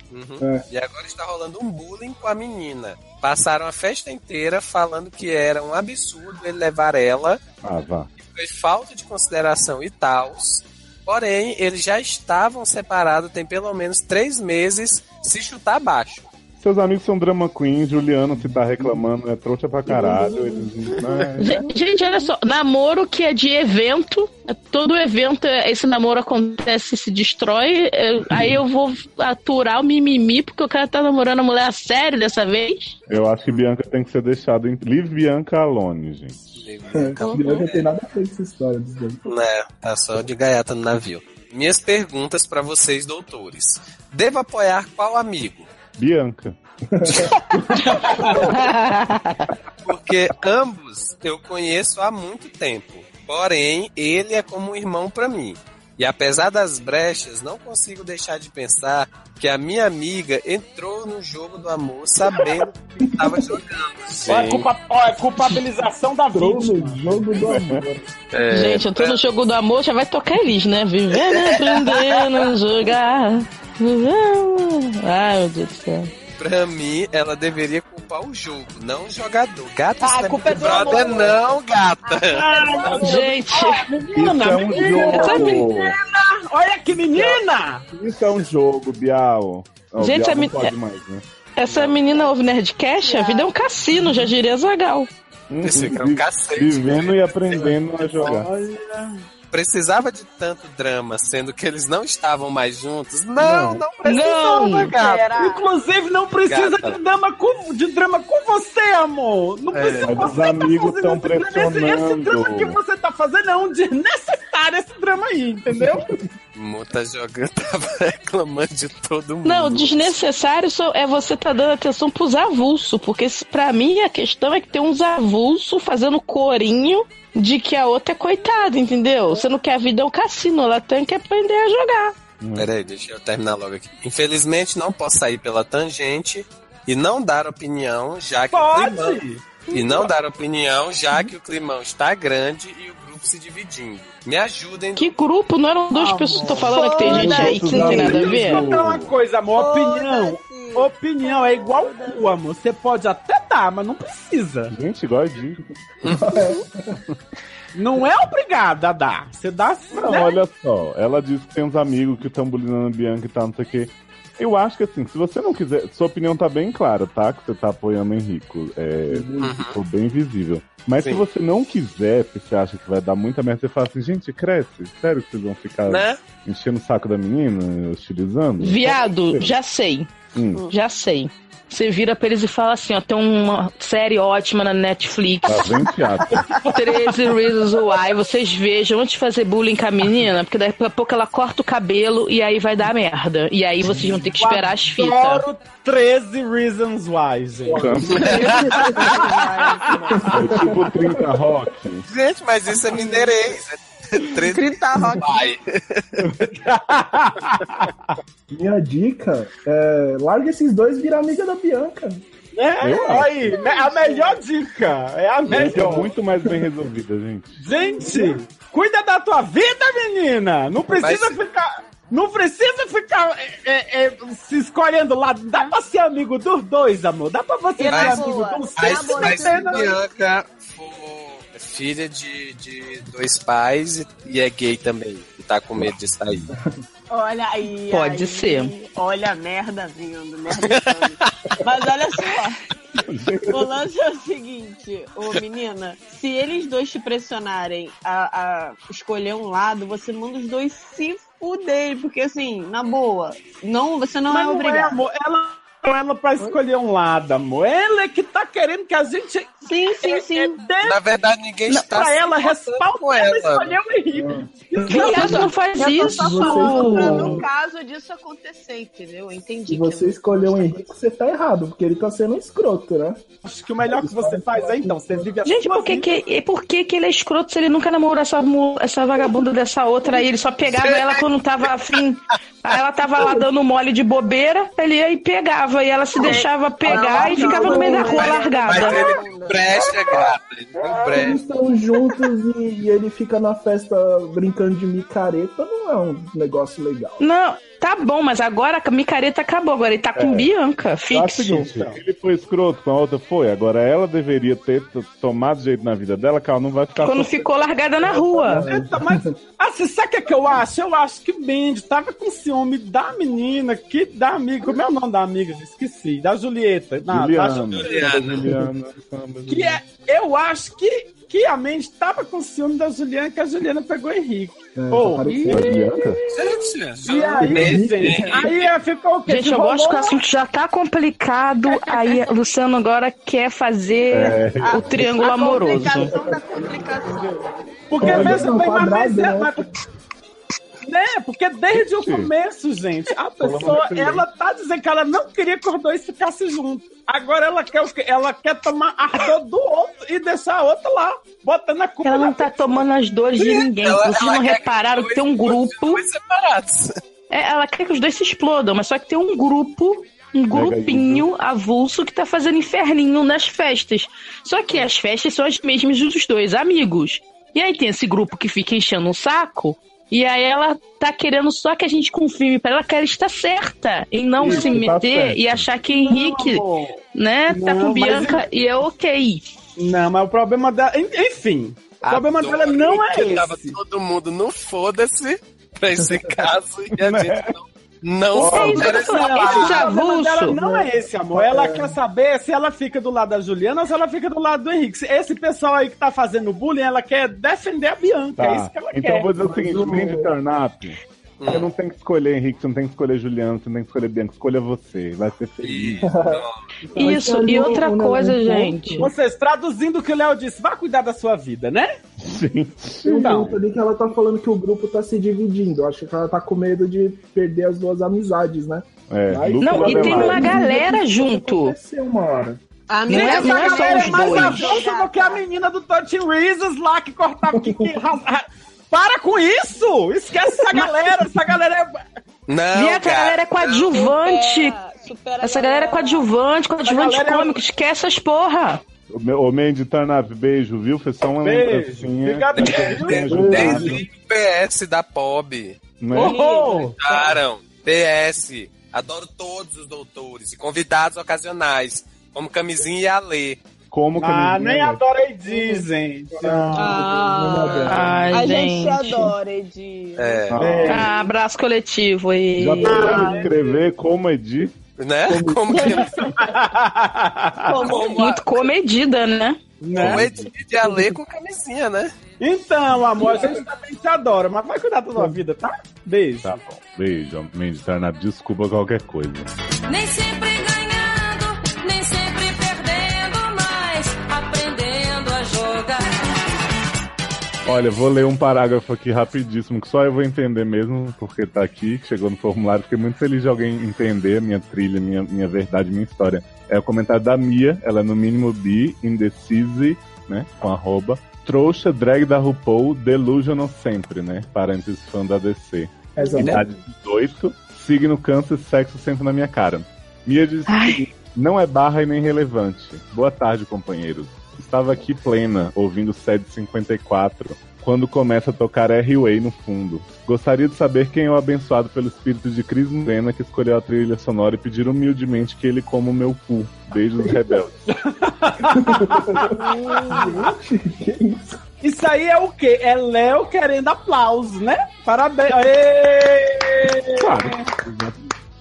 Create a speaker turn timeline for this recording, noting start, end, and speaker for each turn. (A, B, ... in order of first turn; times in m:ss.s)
0:00.1-0:07.4 A
0:07.6-0:08.1 B
0:08.2-0:16.3 A
0:16.6-0:21.6 B
0:18.4-0:19.0 C
0:19.8-0:20.7 C
0:21.4-0:32.9 D
0:33.1-0:36.6 B
0:36.6-0:37.9 A
0:36.9-0:39.2 C
0:39.2-0:45.7 A
0:46.0-0:46.6 B
0:47.0-0:48.3 C
0:47.1-0:47.3 B
0:47.7-0:48.4 E
0:48.5-0:49.5 D
0:49.8-1:04.7 A
1:03.2-1:03.5 C
1:04.2-1:07.4 E
1:06.3-1:08.1 C
1:07.5-1:07.8 B
1:08.3-1:09.3 A
1:08.5-1:16.1 D
1:11.3-1:12.4 A
1:16.4-1:23.1 A
1:20.0-1:21.4 F
1:22.0-1:23.2 F
1:22.3-1:27.8 E
1:22.9-1:23.9 D
1:24.1-1:25.9 B
1:25.0-1:25.7 D
1:27.9-1:31.2 B
1:30.0-1:30.7 D
1:31.6-1:35.1 D
1:31.7-1:32.0 A
1:33.0-1:33.5 F
1:35.5-1:38.5 B
1:35.6-1:37.7 A
1:38.1-1:39.1 E
1:39.5-1:45.3 A
1:43.4-1:43.8 B
1:44.0-1:44.9 D
1:44.5-1:45.7 F
1:45.4-1:56.0 E
1:46.4-1:47.0 A
1:49.7-1:50.3 A
1:50.0-1:52.8 B
1:56.5-2:00.2 A
1:59.4-2:12.1 D
2:12.4-2:12.7 B
2:12.6-2:25.1 A
2:18.5-2:19.4 E
2:19.7-2:20.0 F
2:25.0-2:28.6 D
2:25.9-2:27.3 E
2:26.6-2:27.9 F
2:27.0-2:29.1 B
2:27.7-2:28.1 C
2:27.8-2:34.7 E
2:29.5-2:32.4 F
2:34.7-2:35.6 B
2:36.0-2:36.4 A
2:36.1-2:37.0 C
2:37.7-2:40.4 E
2:39.9-2:59.5 B
2:49.1-2:49.6 C
2:49.4-2:49.8 A
2:51.0-2:51.2 A
2:55.9-2:56.2 A
2:58.6-3:00.1 D
3:00.3-3:00.6 B
3:00.7-3:05.9 D
3:05.5-3:06.6 B
3:06.5-3:07.1 E
3:06.6-3:15.4 D
3:14.2-3:19.2 E
3:17.6-3:19.1 C
3:17.7-3:18.4 B
3:18.2-3:20.4 F
3:19.9-3:20.3 E
3:20.2-3:21.4 C
3:20.3-3:22.0 B
3:22.1-3:26.3 A
3:22.9-3:23.3 F
3:24.4-3:25.4 F
3:26.5-3:28.1 E
3:28.5-3:32.2 C
3:32.5-3:36.1 E
3:32.8-3:33.7 B
3:33.6-3:34.4 F
3:35.5-3:37.6 B
3:35.5-3:35.9 C
3:37.6-3:50.0 E
3:38.0-3:38.4 C
3:41.0-3:41.4 A
3:47.8-3:49.9 F
3:47.9-3:48.2 A
3:48.8-3:56.5 A
3:57.1-4:02.6 F
3:57.9-3:58.7 D
4:00.7-4:01.3 A
4:03.0-4:03.7 B
4:03.5-4:15.0 F
4:14.3-4:21.0 E
4:19.6-4:20.6 F
4:20.8-4:23.8 A
4:21.8-4:25.5 E
4:24.1-4:25.2 C
4:24.8-4:27.3 D
4:24.9-4:30.8 F
4:25.9-4:27.4 C
4:29.7-4:33.2 C
4:33.4-4:36.1 E
4:33.9-4:35.2 C
4:35.4-4:49.1 D
4:40.7-4:41.2 A
4:46.2-4:50.0 F
4:47.2-4:48.2 C
4:48.7-4:51.4 A
4:51.0-4:57.2 C
4:57.2-5:01.7 D
5:00.2-5:00.5 B
5:01.1-5:07.5 B
5:01.6-5:02.0 E
5:07.0-5:08.6 D
5:08.5-5:09.2 C
5:08.5-5:18.3 E
5:17.1-5:19.8 B
5:17.7-5:18.5 A
5:19.5-5:30.2 E
5:24.8-5:25.8 C
5:25.5-5:26.2 B
5:26.3-5:28.7 A
5:27.4-5:28.4 C
5:29.2-5:36.1 D
5:34.1-5:35.0 B
5:34.6-5:37.4 F
5:37.9-5:39.7 E
5:38.0-5:39.7 C
5:38.0-5:38.6 B
5:40.8-5:52.7 E
5:41.7-5:42.3 B
5:43.4-5:44.2 B
5:52.0-5:56.0 D
5:53.4-5:57.0 A
5:57.3-6:19.4 D
6:00.5-6:01.3 B
6:14.4-6:15.7 B
6:14.4-6:14.7 E
6:15.9-6:18.4 E
6:19.8-6:23.7 E
6:22.0-6:29.9 A
6:27.0-6:27.5 B
6:28.3-6:28.9 B
6:28.4-6:39.3 E
6:28.4-6:30.6 D
6:30.5-6:32.0 C
6:38.4-6:46.0 B
6:39.4-6:40.3 C
6:41.4-6:41.7 A
6:45.6-6:46.6 A
6:46.0-6:49.1 C
6:46.9-6:47.7 E
6:47.0-6:49.1 D
6:49.0-6:51.9 E
6:52.2-6:53.5 B
6:53.0-7:02.6 C
6:53.2-6:53.5 E
6:59.1-7:00.6 B
6:59.6-7:01.8 D
7:02.9-7:05.4 F
7:03.1-7:04.8 D
7:03.1-7:12.0 E
7:07.6-7:08.0 C
7:12.5-7:13.9 A
7:12.7-7:14.8 D
7:13.8-7:16.3 F
7:15.4-7:18.8 D
7:16.8-7:17.6 E
7:19.1-7:24.0 B
7:21.4-7:24.0 E
7:22.6-7:25.8 A
7:26.0-7:26.4 B
7:26.1-7:27.1 E
7:26.2-7:26.9 F
7:27.0-7:33.6 A
7:33.9-7:35.0 B
7:34.2-7:37.1 E
7:36.3-7:38.3 C
7:36.7-7:40.5 F
7:37.8-7:39.3 D
7:40.2-7:40.9 A
7:40.5-7:41.1 B
7:40.6-7:41.1 E
7:40.8-7:43.2 D
7:42.6-7:44.7 B
7:42.8-7:43.6 E
7:42.9-7:43.5 F
7:45.0-7:46.2 A
7:45.3-7:46.0 C
7:45.7-7:46.3 F
7:45.9-7:48.3 E
7:47.6-7:48.3 F
7:47.9-7:49.7 D
7:49.8-7:50.3 E
7:49.9-7:50.4 B
7:49.9-7:52.1 A
7:52.4-7:56.6 E
7:56.4-7:59.5 B
7:59.9-8:06.2 G
8:07.6-8:47.8 B
8:26.2-8:26.6 C
8:30.7-8:31.0 D
8:47.9-8:50.5 E
8:48.8-8:51.6 C
8:51.8-8:57.7 E
8:57.2-8:58.2 B